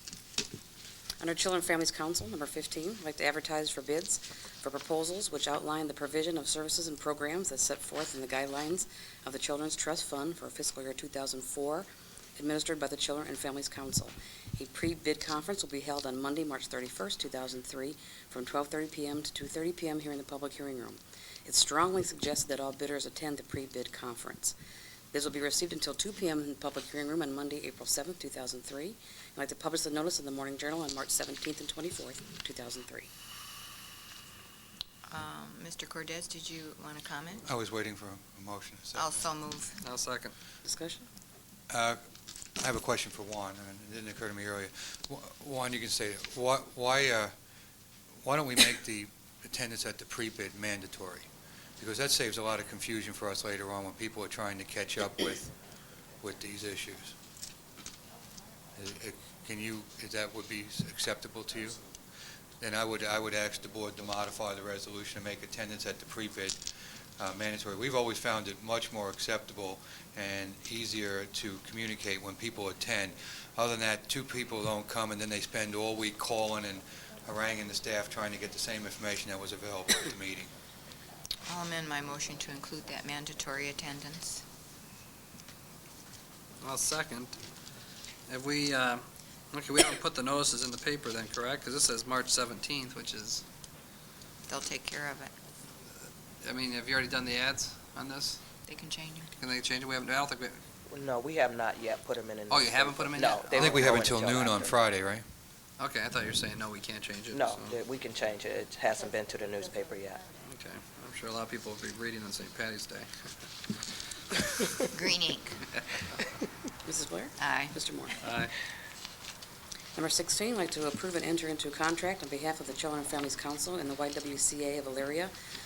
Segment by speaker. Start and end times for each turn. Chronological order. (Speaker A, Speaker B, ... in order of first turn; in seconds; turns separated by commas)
Speaker A: 1.2-24.6, Speaker A: 25.1-33.1, Speaker B: 35.1-37.4, Speaker C: 37.5-39.1, Speaker B: 38.9-39.8, Speaker D: 39.8-40.4, Speaker A: 40.6-41.1, Speaker C: 41.7-42.0, Speaker C: 42.6-47.3, Speaker C: 48.2-51.3, Speaker C: 51.8-55.5, Speaker C: 56.2-57.1, Speaker C: 58.8-61.8, Speaker C: 62.6-66.6, Speaker C: 67.2-80.5, Speaker B: 81.5-84.4, Speaker D: 86.6-87.4, Speaker D: 88.3-93.4, Speaker B: 94.5-95.3, Speaker D: 96.4-98.5, Speaker B: 98.7-99.3, Speaker D: 99.4-100.6, Speaker E: 100.9-104.8, Speaker D: 102.5-103.8, Speaker C: 103.5-105.2, Speaker D: 105.8-107.8, Speaker E: 107.3-110.2, Speaker D: 110.4-113.1, Speaker B: 114.9-115.6, Speaker A: 116.8-118.2, Speaker B: 117.4-117.8, Speaker D: 118.2-118.5, Speaker A: 120.0-125.3